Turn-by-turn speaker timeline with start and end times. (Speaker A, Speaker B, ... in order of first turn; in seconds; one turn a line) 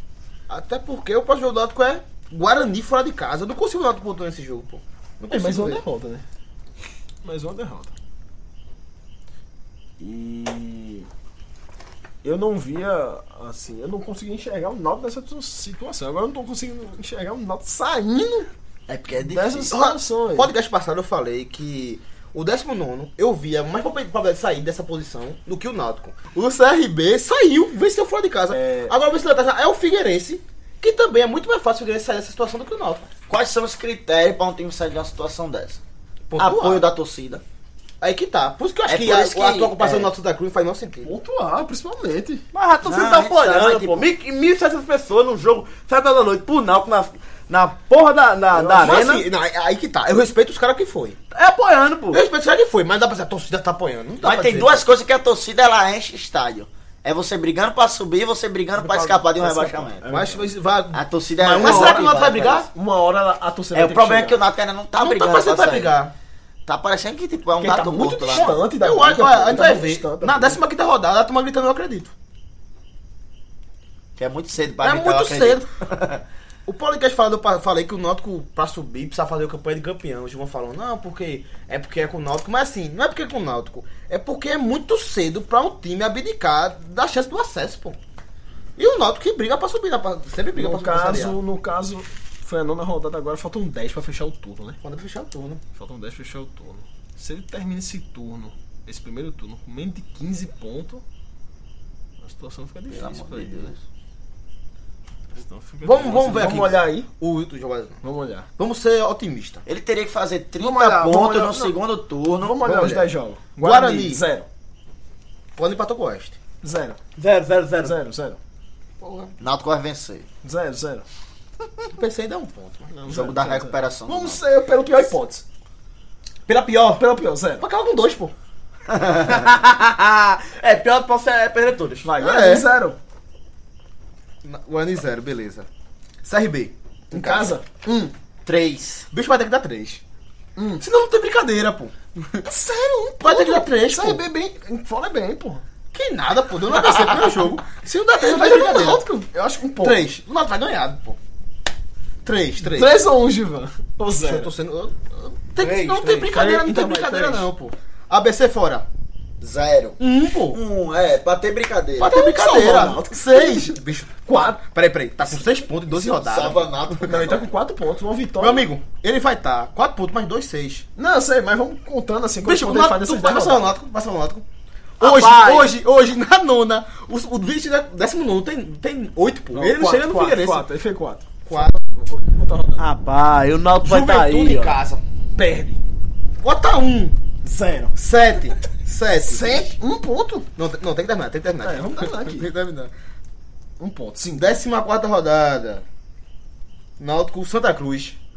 Speaker A: 0.5-5.8
Speaker B: 5.3-6.2
Speaker B: 7.2-7.9
Speaker B: 10.0-11.1
Speaker B: 12.2-18.5
Speaker C: 18.9-19.7
Speaker B: 19.3-20.5
Speaker A: 19.7-33.1
Speaker B: 28.5-28.9
Speaker C: 33.3-35.8
Speaker A: 36.3-36.8
Speaker C: 36.4-37.4
Speaker A: 38.0-41.1
Speaker C: 38.8-40.1
Speaker B: 41.0-42.4
Speaker D: 42.5-49.2
Speaker C: 42.8-44.1
Speaker B: 48.5-49.0
Speaker A: 48.8-51.2
Speaker D: 51.3-52.2
Speaker A: 52.1-54.9
Speaker C: 54.2-60.0
Speaker B: 58.8-60.5
Speaker A: 60.1-62.7
Speaker C: 60.9-62.7
Speaker B: 61.6-62.2
Speaker B: 62.7-64.4
Speaker C: 63.7-65.9
Speaker A: 65.0-66.1
Speaker C: 66.7-68.5
Speaker B: 67.6-70.6
Speaker A: 68.3-72.1
Speaker C: 74.2-76.2
Speaker A: 74.8-75.7
Speaker A: 76.7-88.0
Speaker A: 88.8-91.4
Speaker B: 90.5-94.8
Speaker A: 94.8-95.6
Speaker B: 95.7-101.0
Speaker B: 102.2-103.7
Speaker C: 102.9-103.8
Speaker B: 105.3-107.1
Speaker A: 105.8-108.0
Speaker B: 108.0-108.5
Speaker A: 108.6-109.6
Speaker C: 109.7-112.9
Speaker B: 110.6-111.8
Speaker B: 112.4-114.5
Speaker A: 112.6-114.2
Speaker A: 115.6-116.4
Speaker B: 116.6-117.0
Speaker D: 117.2-118.0
Speaker B: 117.8-118.4
Speaker A: 119.0-119.3
Speaker C: 119.4-120.3
Speaker B: 120.4-121.0
Speaker A: 121.9-122.9
Speaker B: 122.9-125.4
Speaker C: 123.1-124.4
Speaker A: 126.5-127.0
Speaker B: 127.0-127.6
Speaker A: 127.6-128.3
Speaker D: 129.2-132.1
Speaker B: 132.0-133.0
Speaker A: 132.2-132.7
Speaker A: 134.4-135.7
Speaker A: 136.2-137.5
Speaker B: 137.1-138.1
Speaker C: 138.4-139.1
Speaker A: 139.1-140.0
Speaker B: 140.6-140.8
Speaker A: 140.8-141.9
Speaker B: 142.4-145.6
Speaker A: 143.2-144.2
Speaker A: 145.9-149.0
Speaker B: 147.2-147.5
Speaker B: 148.1-150.1
Speaker A: 149.8-151.2
Speaker A: 152.2-153.0
Speaker B: 152.6-154.5
Speaker A: 154.2-158.8
Speaker D: 155.6-156.3
Speaker B: 156.3-157.5
Speaker C: 159.4-160.0
Speaker A: 160.0-160.6
Speaker C: 160.5-162.2
Speaker A: 162.0-166.8
Speaker B: 162.1-164.6
Speaker C: 166.0-167.4
Speaker B: 167.0-168.7
Speaker A: 168.4-170.8
Speaker B: 171.0-173.7
Speaker A: 172.4-174.4
Speaker D: 175.0-175.7
Speaker A: 175.0-180.7
Speaker B: 179.5-182.8
Speaker A: 181.5-181.7
Speaker D: 182.8-184.8
Speaker A: 183.8-185.0
Speaker B: 185.3-185.8
Speaker A: 186.4-187.2
Speaker B: 187.4-188.0
Speaker A: 187.9-189.7
Speaker B: 189.2-190.5
Speaker A: 190.6-192.9
Speaker B: 191.6-192.5
Speaker B: 193.8-194.6
Speaker A: 194.4-195.8
Speaker A: 197.0-198.2